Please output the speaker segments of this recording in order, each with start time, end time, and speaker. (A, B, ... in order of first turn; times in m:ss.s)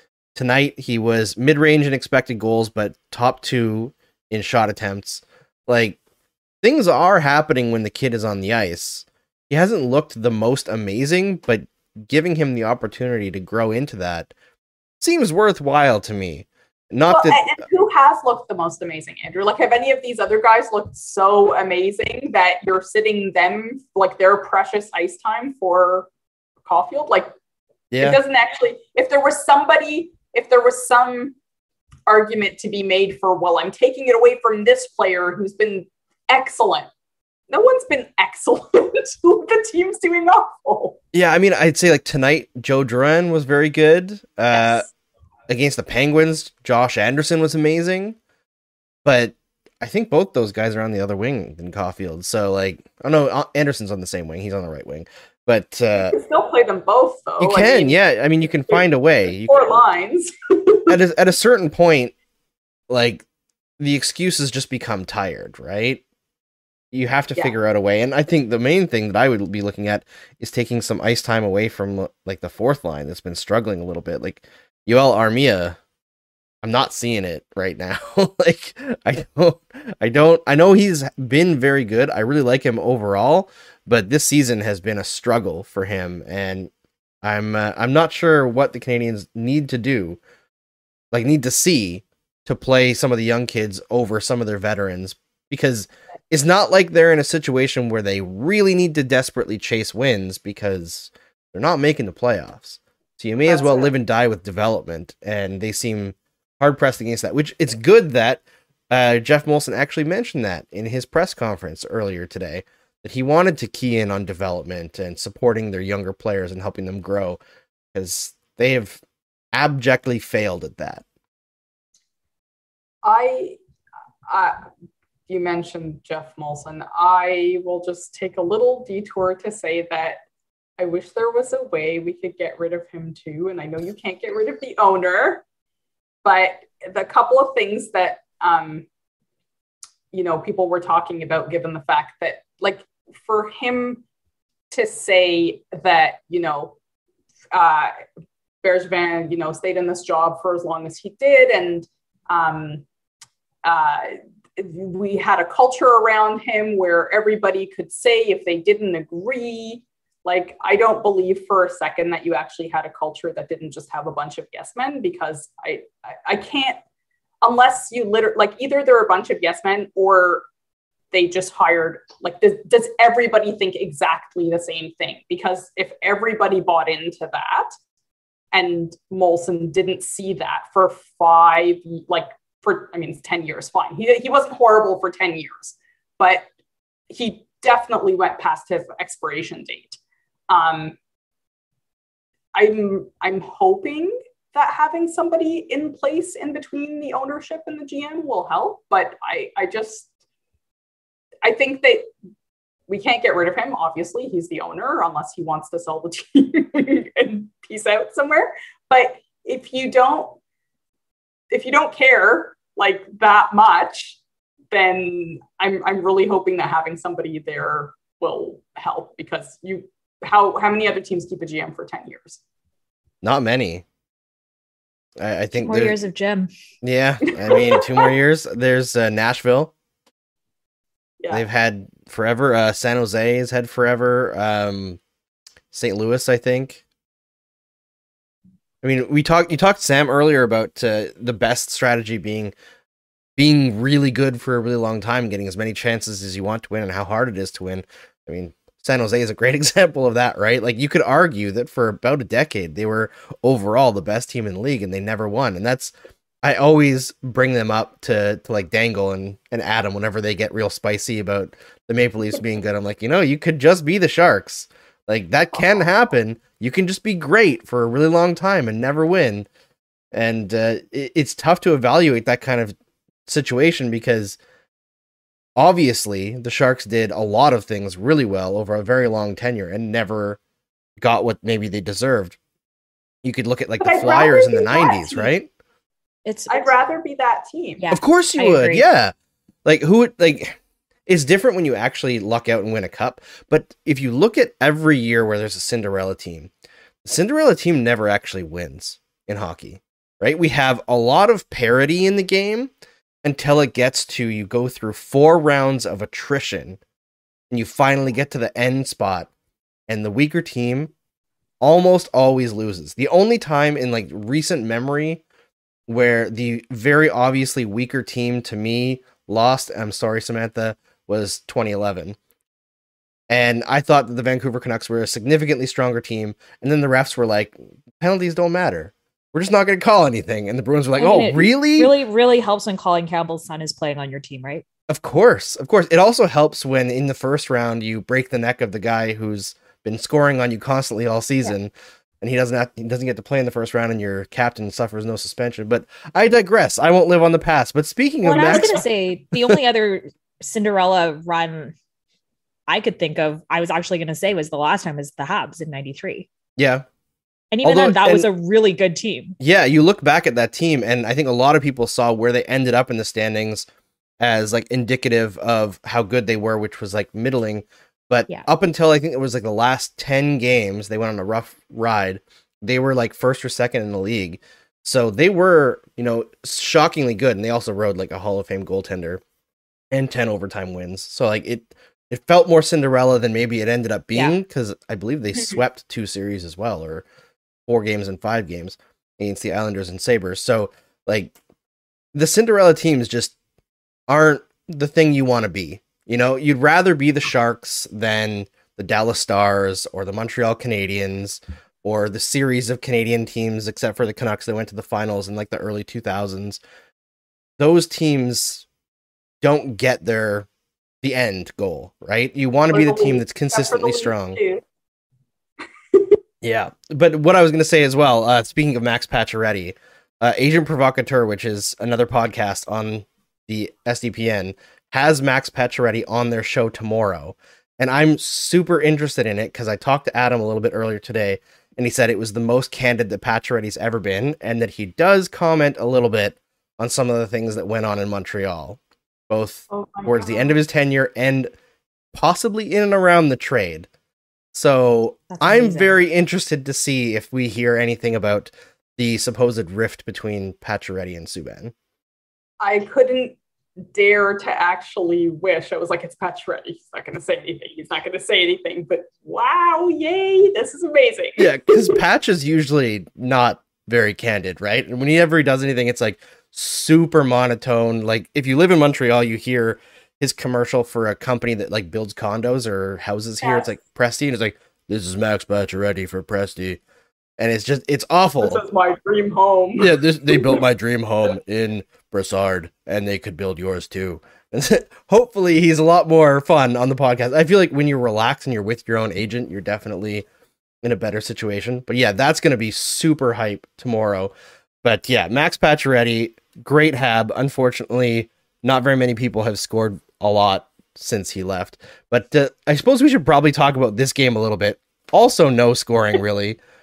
0:00.4-0:06.0 A
0:06.6-0:14.3 A
0:15.0-0:17.4 A
0:17.1-0:26.1 B
0:26.6-0:27.3 B
0:27.9-0:28.2 A
0:28.0-0:31.4 B
0:32.1-0:36.9 B
0:37.5-0:41.0 B
0:41.1-0:44.9 A
0:44.5-0:44.8 B
0:45.5-0:48.2 A
0:49.0-0:56.2 A
0:56.0-0:58.0 B
0:57.4-0:59.8 A
0:58.7-1:01.0 B
1:00.9-1:02.1 A
1:02.9-1:03.2 A
1:03.8-1:06.0 A
1:06.9-1:15.8 A
1:16.6-1:30.2 A
1:31.1-1:57.4 A
1:43.4-1:43.9 B
1:57.9-1:59.0 A
1:59.5-2:01.0 A
2:03.0-2:03.6 B
2:04.3-2:04.6 B
2:05.3-2:10.2 B
2:10.8-2:15.4 B
2:16.2-2:18.9 B
2:20.1-2:24.0 B
2:24.7-2:26.8 B
2:27.5-2:27.9 B
2:28.6-2:32.8 B
2:33.6-2:46.8 B
2:47.4-2:50.5 B
2:51.1-2:57.8 B
2:58.5-3:06.5 B
3:07.1-3:10.0 B
3:10.5-3:11.0 B
3:12.6-3:20.1 B
3:21.4-3:22.1 B
3:22.9-3:30.4 B
3:31.5-3:34.2 B
3:34.7-3:42.4 B
3:43.2-3:43.8 A
3:45.2-3:46.0 A
3:45.6-3:46.5 C
3:46.8-3:49.7 A
3:47.5-3:48.0 B
3:51.2-3:51.4 B
3:51.3-3:55.0 A
3:55.7-3:56.8 A
3:58.8-4:02.5 A
4:03.4-4:29.5 A
4:30.1-4:32.8 A
4:33.3-4:34.4 A
4:35.6-4:40.4 A
4:41.0-4:42.4 A
4:43.2-4:45.5 A
4:43.8-4:45.3 B
4:46.3-4:46.7 C
4:46.5-4:47.8 B
4:47.8-4:48.9 C
4:47.9-4:49.1 A
4:49.6-4:56.5 A
4:57.0-5:02.7 A
5:03.2-5:06.8 A
5:07.5-5:09.3 A
5:09.9-5:10.9 A
5:11.6-5:15.2 A
5:15.9-5:22.2 A
5:23.3-5:32.0 A
5:31.0-5:34.6 C
5:34.9-5:48.8 A
5:48.2-5:51.8 C
5:52.7-5:56.3 C
5:56.6-5:56.9 A
5:57.5-5:59.4 C
5:57.6-5:58.3 A
5:59.4-6:03.7 A
6:04.2-6:19.2 A
6:19.9-6:27.0 A
6:27.7-6:31.4 A
6:32.1-6:33.3 A
6:34.1-6:46.6 A
6:47.6-6:48.7 A
6:49.4-6:50.5 A
6:51.0-6:54.4 A
6:52.7-6:54.6 B
6:56.4-7:21.5 A
7:19.7-7:20.6 B
7:22.1-7:23.9 A
7:24.5-7:31.7 A
7:25.3-7:26.0 C
7:32.6-7:33.4 B
7:33.9-7:42.0 B
7:41.4-7:56.8 A
7:53.4-7:53.7 B
7:57.4-7:58.6 A
7:58.4-8:00.6 B
7:59.8-8:10.3 A
8:10.8-8:14.3 A
8:14.8-8:26.6 A